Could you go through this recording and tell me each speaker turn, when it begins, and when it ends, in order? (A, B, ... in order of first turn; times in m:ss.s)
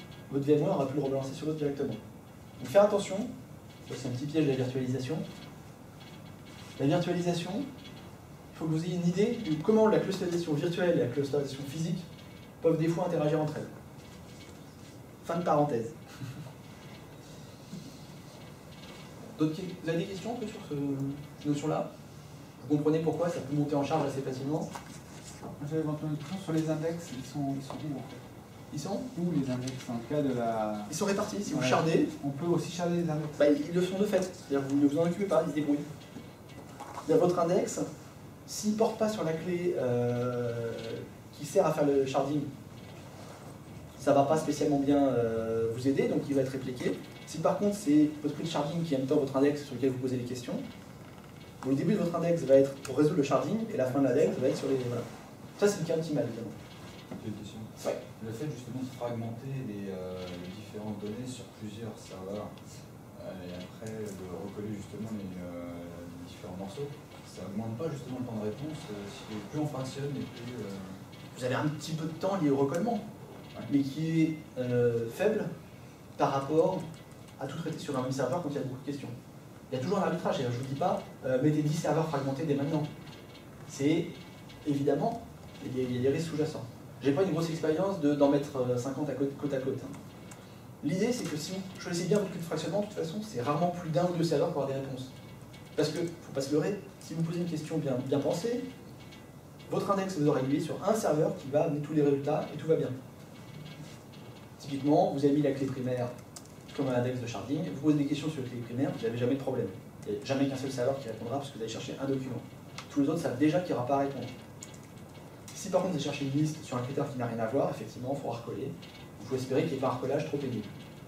0:00.3-0:02.0 A
0:02.6-0:03.3 A
0:03.9-0:05.2 A
0:06.8-0:07.7 A
0:08.5-0:12.1 A
0:12.6-0:13.7 A
0:15.2-0:15.9 A
0:19.4-0:21.9 A
0:22.6-0:24.7 A
0:25.6-0:28.2 B
0:28.7-0:29.1 A
0:29.1-0:30.9 B
0:30.9-0:32.1 A
0:31.4-0:33.4 B
0:33.4-0:35.9 A
0:37.0-0:37.9 A
0:38.4-0:42.5 A
0:44.0-0:50.6 A
0:51.6-0:56.6 A
0:57.2-1:02.5 C
1:03.1-1:11.0 C
1:11.3-1:13.1 A
1:13.7-1:15.5 A
1:16.2-1:16.9 A
1:17.4-1:19.1 A
1:19.7-1:22.9 A
1:23.7-1:29.9 A
1:30.8-1:35.1 A
1:35.8-1:38.6 A
1:39.7-1:43.0 A
1:44.6-1:46.1 A
1:46.7-1:54.3 A
1:55.5-2:00.7 A